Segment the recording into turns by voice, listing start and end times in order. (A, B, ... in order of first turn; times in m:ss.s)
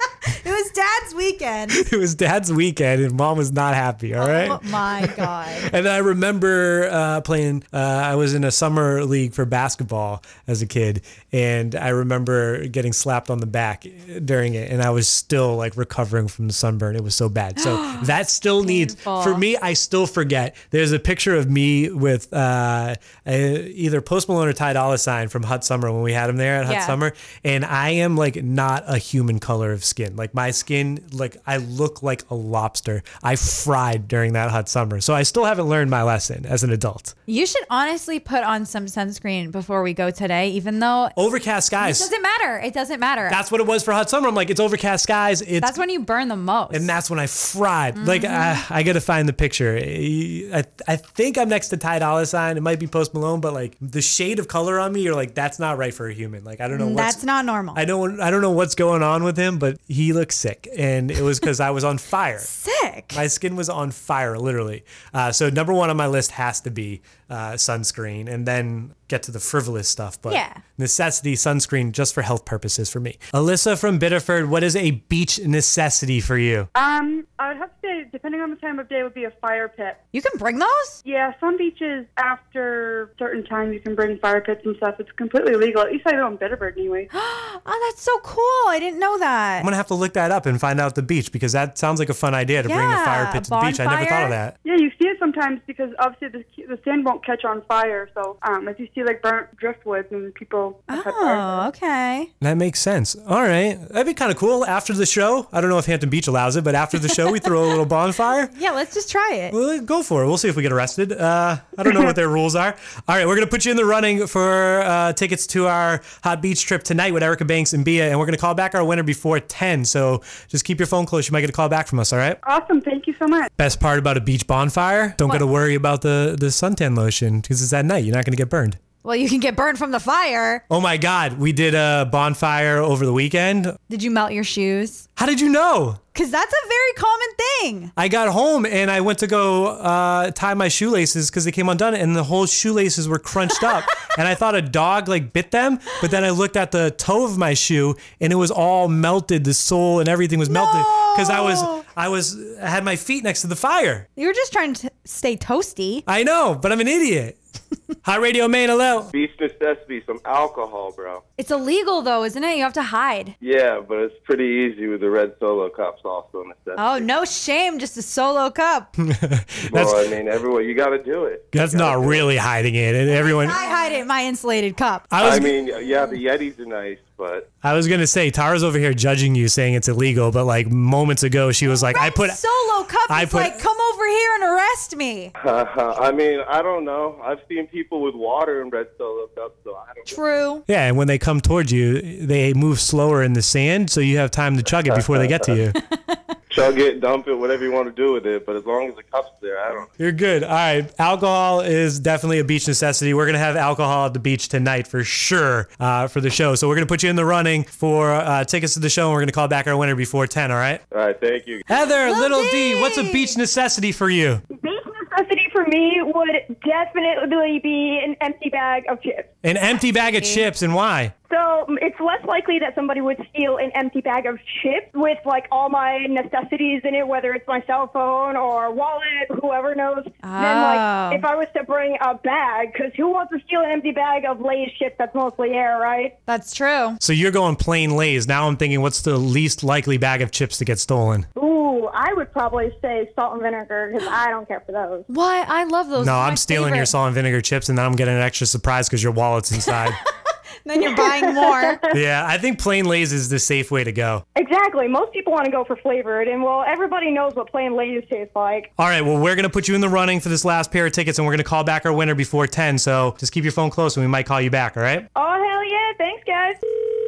0:00.2-0:01.8 A
0:01.7-0:37.1 B
0:04.2-0:05.7 A
0:17.6-0:18.1 A
0:18.6-0:19.4 A
0:26.6-0:27.0 A
0:37.3-0:41.1 A
0:41.2-0:42.1 B
0:41.8-0:43.4 A
0:43.3-0:45.8 B
0:45.6-0:46.9 A
0:46.7-0:57.2 B
0:47.9-0:48.6 A
0:56.7-0:57.8 A
0:57.7-1:02.5 B
1:02.4-1:03.2 A
1:03.1-1:16.7 B
1:10.3-1:10.6 A
1:16.7-1:20.0 C
1:20.1-1:21.0 A
1:21.0-1:27.1 C
1:27.1-1:29.7 A
1:29.6-1:34.5 B
1:32.6-1:34.4 A
1:34.6-1:41.7 C
1:40.9-1:42.3 A
1:42.4-1:48.5 B
1:48.5-1:49.6 A
1:49.5-2:02.4 B
2:02.4-2:03.5 C
2:03.6-2:08.8 B
2:09.0-2:10.6 A
2:10.7-2:13.8 B
2:13.9-2:15.1 A
2:15.2-2:16.0 B
2:16.1-2:17.9 A
2:18.0-2:34.1 B
2:30.5-2:31.8 A
2:34.2-2:36.0 A
2:36.1-2:37.4 B
2:38.0-2:39.1 B
2:39.1-2:41.2 D
2:41.4-2:43.3 A
2:43.4-2:47.1 D
2:46.8-2:48.9 A
2:49.0-2:50.0 B
2:49.6-2:52.3 D
2:51.5-2:53.6 B
2:53.1-2:55.1 A
2:55.1-2:55.5 B
2:55.2-2:57.5 D
2:57.6-3:02.4 B
3:01.7-3:05.3 A
3:03.1-3:03.6 B
3:05.4-3:10.2 D
3:10.1-3:10.6 A
3:10.7-3:15.8 B
3:14.7-3:15.5 D
3:15.9-3:16.2 A
3:16.5-3:19.9 D
3:20.0-3:30.8 B
3:30.9-3:31.6 D
3:31.7-3:34.4 B
3:32.0-3:33.3 A
3:34.5-3:39.3 E
3:39.4-3:41.1 B
3:40.1-3:40.5 A
3:41.3-3:56.1 E
3:50.2-3:51.2 A
3:56.3-3:57.0 A
3:57.0-4:01.3 B
4:01.4-4:05.1 E
4:05.1-4:06.9 A
4:06.0-4:10.0 B
4:10.6-4:11.8 A
4:11.2-4:11.8 E
4:11.9-4:14.2 B
4:14.3-4:18.7 E
4:18.8-4:25.1 B
4:25.1-4:26.9 E